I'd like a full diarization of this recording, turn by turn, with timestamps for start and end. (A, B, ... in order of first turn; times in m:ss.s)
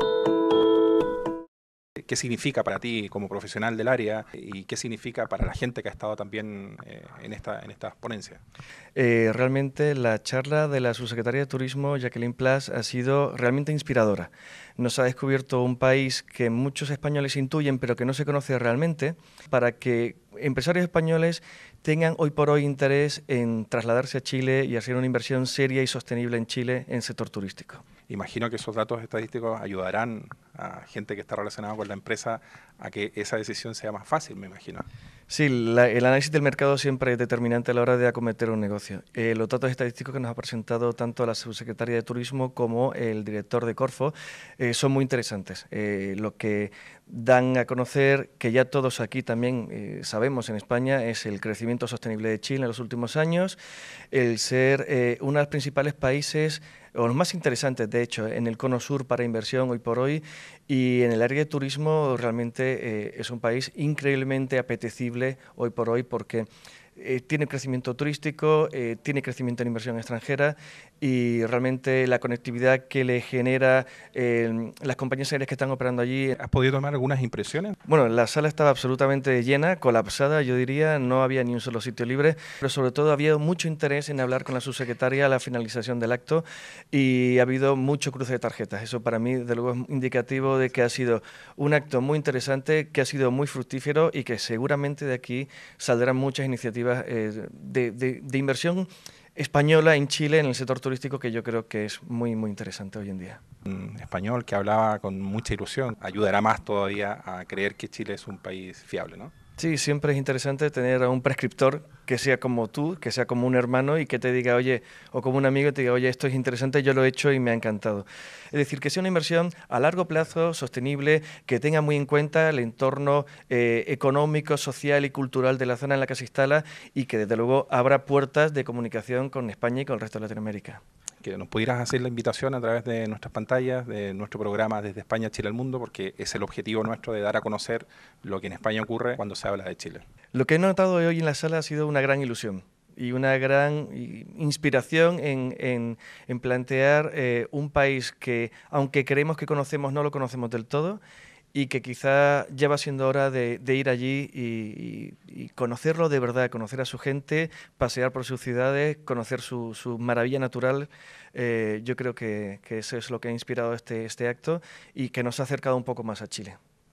0:02.0-0:08.4 A
0:09.0-0:27.8 B
0:28.1-0:34.9 A
0:35.3-0:53.6 B
0:54.1-1:16.4 B
1:16.4-1:17.8 A
1:17.9-1:43.4 B
1:43.6-1:49.3 A
1:49.6-2:10.8 B
2:11.2-2:20.0 A
2:20.3-2:31.0 B
2:31.5-2:46.6 B